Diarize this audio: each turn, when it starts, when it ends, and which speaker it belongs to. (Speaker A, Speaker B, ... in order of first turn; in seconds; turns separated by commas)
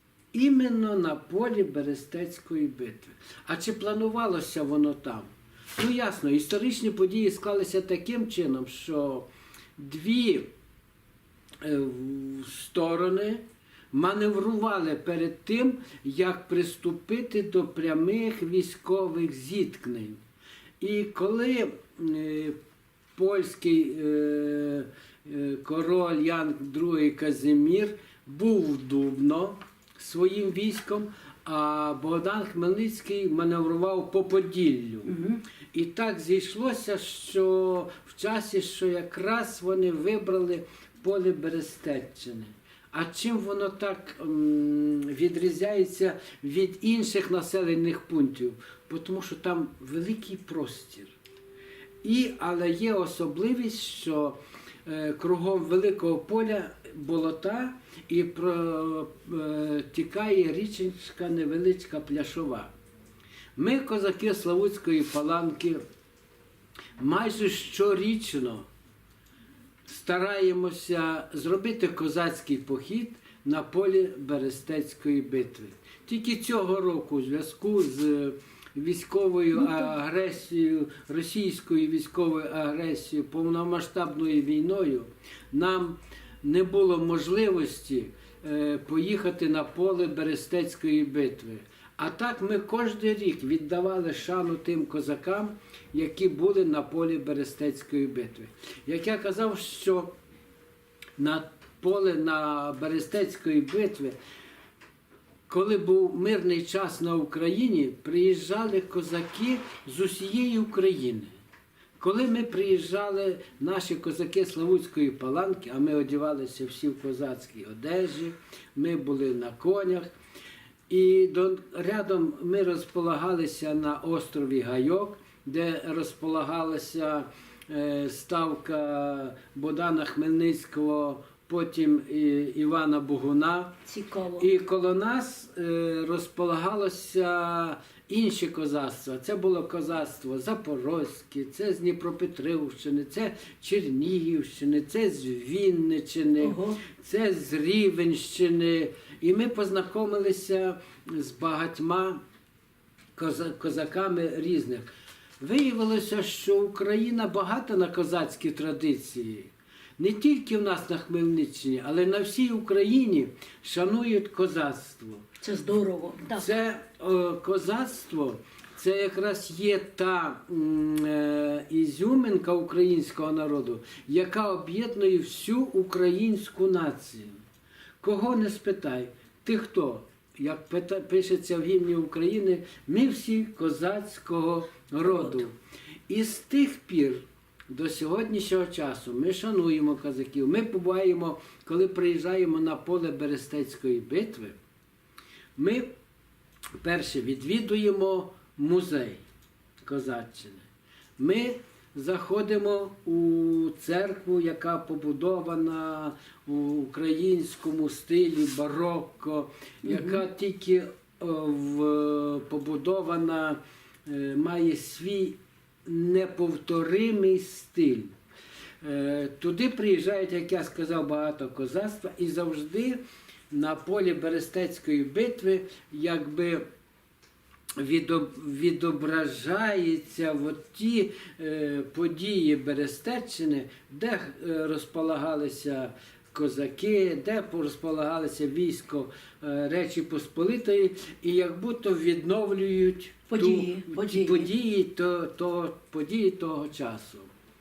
Speaker A: 0.3-9.2, Speaker A: 9.8-10.5, Speaker A: 11.6-20.2, Speaker A: 20.8-22.6, Speaker A: 23.1-35.1, Speaker B: 35.0-35.4, Speaker A: 35.7-51.2, Speaker A: 52.0-62.7, Speaker A: 63.5-65.8, Speaker A: 67.0-68.7, Speaker A: 69.8-100.1, Speaker B: 79.5-79.9, Speaker A: 101.2-104.2, Speaker A: 105.5-111.3, Speaker A: 112.0-120.1, Speaker A: 120.9-133.7, Speaker B: 133.8-134.5, Speaker A: 134.4-152.2, Speaker B: 146.4-146.8, Speaker A: 153.2-154.9, Speaker A: 155.4-165.2, Speaker B: 165.4-166.5, Speaker A: 166.3-177.4, Speaker A: 178.0-185.5, Speaker A: 186.1-194.6, Speaker A: 195.6-195.9, Speaker A: 196.8-199.2, Speaker A: 199.8-200.7, Speaker A: 201.2-218.1, Speaker B: 209.8-210.2, Speaker A: 218.8-223.0, Speaker A: 223.5-226.6, Speaker A: 227.8-247.3, Speaker B: 243.3-244.5